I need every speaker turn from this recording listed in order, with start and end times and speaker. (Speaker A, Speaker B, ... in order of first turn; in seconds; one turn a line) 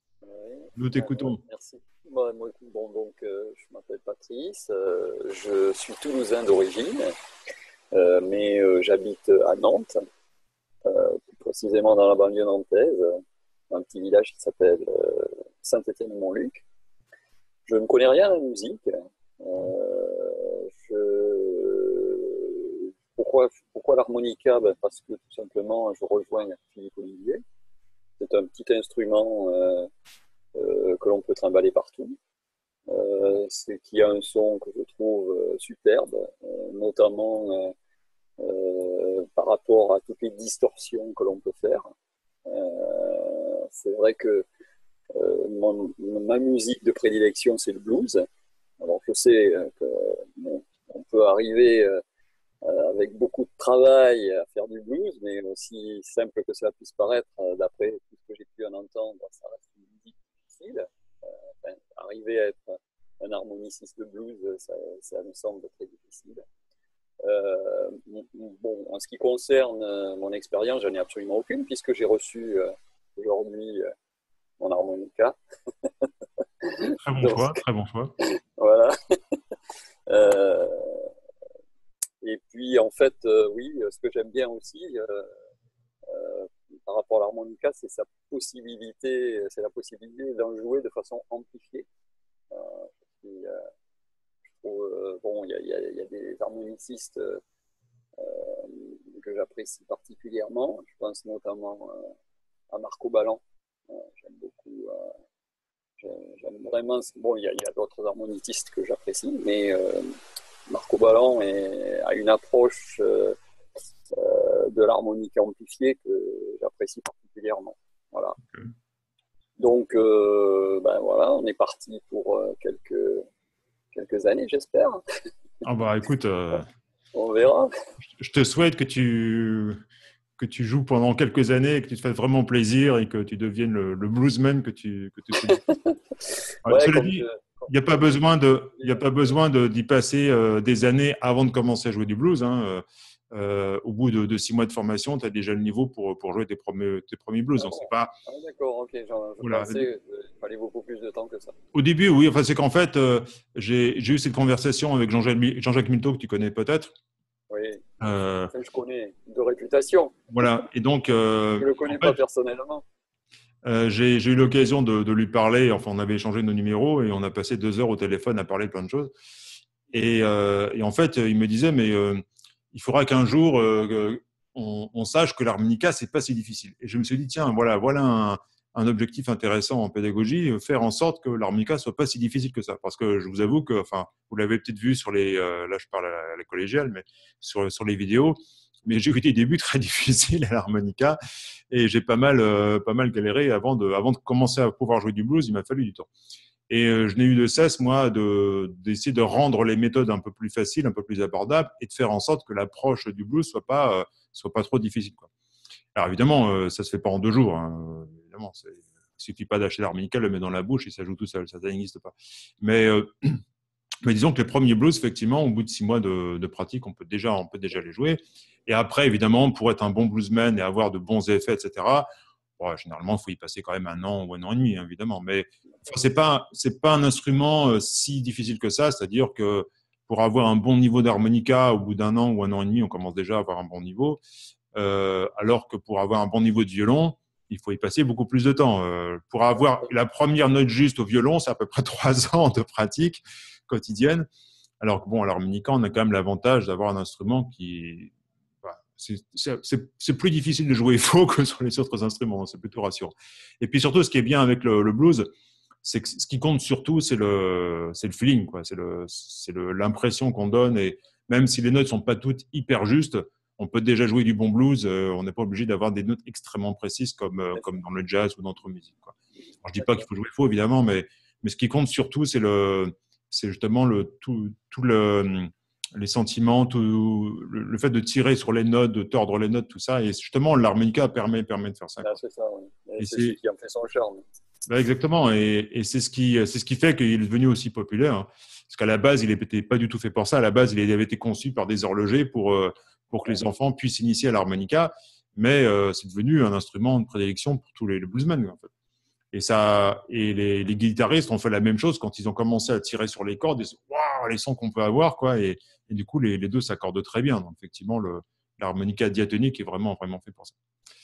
Speaker A: 0.3-7.1
Speaker B: 0.8-1.4
Speaker A: 7.9-10.0
Speaker A: 10.8-13.2
Speaker A: 13.7-16.6
Speaker A: 17.7-27.4
Speaker A: 28.2-29.9
Speaker A: 30.6-32.1
Speaker A: 32.9-37.7
Speaker A: 38.4-41.9
Speaker A: 42.5-44.5
Speaker A: 45.1-48.2
Speaker A: 48.8-52.0
Speaker A: 52.6-66.4
Speaker A: 67.2-73.9
Speaker A: 74.6-76.1
Speaker A: 76.6-77.6
Speaker B: 77.0-78.1
Speaker A: 78.2-79.6
Speaker A: 80.1-81.1
Speaker A: 82.2-85.3
Speaker A: 86.1-91.9
Speaker A: 92.5-93.6
Speaker A: 94.5-97.4
Speaker A: 98.2-102.2
Speaker A: 102.7-105.2
Speaker A: 106.0-110.1
Speaker A: 110.7-113.4
Speaker A: 114.1-118.4
Speaker A: 119.6-123.2
Speaker A: 123.9-125.0
Speaker B: 125.6-126.7
Speaker A: 127.1-127.7
Speaker B: 128.2-129.8
Speaker B: 130.4-135.6
Speaker A: 135.4-138.2
Speaker B: 136.7-148.1
Speaker A: 138.7-139.3
Speaker A: 147.6-151.6
Speaker B: 149.4-149.8
Speaker B: 151.7-156.9
Speaker A: 157.5-157.8
Speaker B: 158.0-158.5
Speaker A: 158.5-160.2
Speaker B: 160.3-162.2
Speaker A: 161.6-162.8
Speaker B: 163.7-169.1
Speaker B: 169.9-191.2
Speaker B: 191.7-196.1
Speaker B: 196.7-205.3
Speaker B: 205.9-213.4
Speaker B: 214.0-222.1
Speaker B: 222.6-234.2
Speaker B: 234.8-244.3
Speaker B: 244.8-248.1
Speaker B: 248.6-255.3
Speaker B: 255.8-282.2
Speaker A: 269.8-270.0
Speaker A: 282.0-284.2
Speaker B: 283.0-283.4
Speaker B: 284.7-298.7
Speaker B: 299.3-310.6